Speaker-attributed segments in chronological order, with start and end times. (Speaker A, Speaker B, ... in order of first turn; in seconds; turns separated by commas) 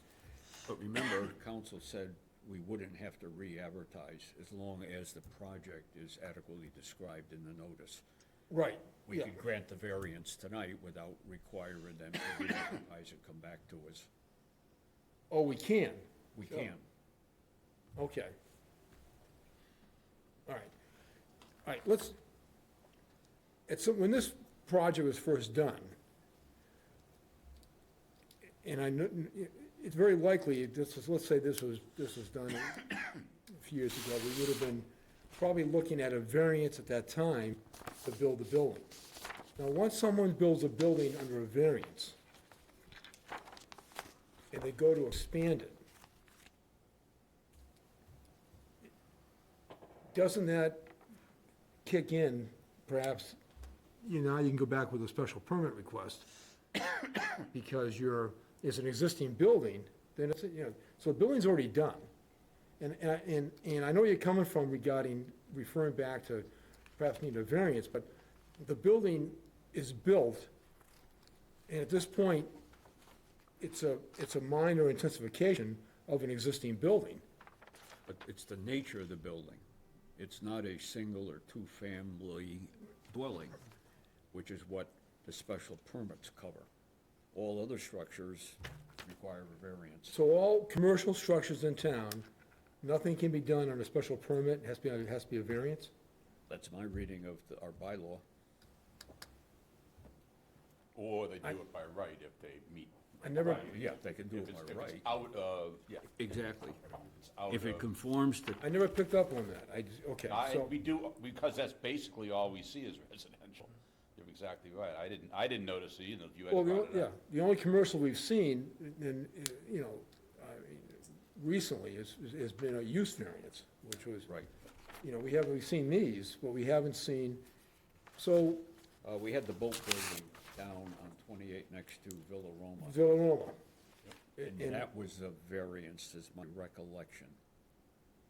Speaker A: 0.7-8.0, Speaker B: 8.5-9.3, Speaker A: 9.0-14.1, Speaker B: 15.3-16.7, Speaker A: 16.3-16.8, Speaker B: 17.9-18.3, Speaker B: 20.5-20.7, Speaker B: 21.6-22.2, Speaker B: 23.7-25.9, Speaker B: 28.6-38.9, Speaker B: 39.6-42.2, Speaker B: 44.5-45.8, Speaker B: 50.1-50.9, Speaker B: 51.8-53.4, Speaker B: 54.0-56.3, Speaker B: 57.5-62.0, Speaker B: 62.8-70.5, Speaker B: 71.7-72.5, Speaker B: 73.6-77.2, Speaker A: 78.1-79.6, Speaker A: 80.2-83.6, Speaker A: 84.3-86.7, Speaker A: 87.3-90.2, Speaker B: 90.1-92.3, Speaker B: 92.8-95.9, Speaker A: 96.5-98.2, Speaker C: 100.9-106.1, Speaker B: 103.2-103.7, Speaker A: 103.5-105.1, Speaker A: 106.2-106.8, Speaker C: 107.0-107.9, Speaker A: 107.5-108.6, Speaker B: 108.6-110.7, Speaker C: 110.2-117.1, Speaker B: 116.5-124.3, Speaker B: 125.0-127.4, Speaker B: 128.2-128.7, Speaker A: 129.0-133.2, Speaker B: 132.8-133.6, Speaker B: 134.4-134.8, Speaker A: 134.4-137.4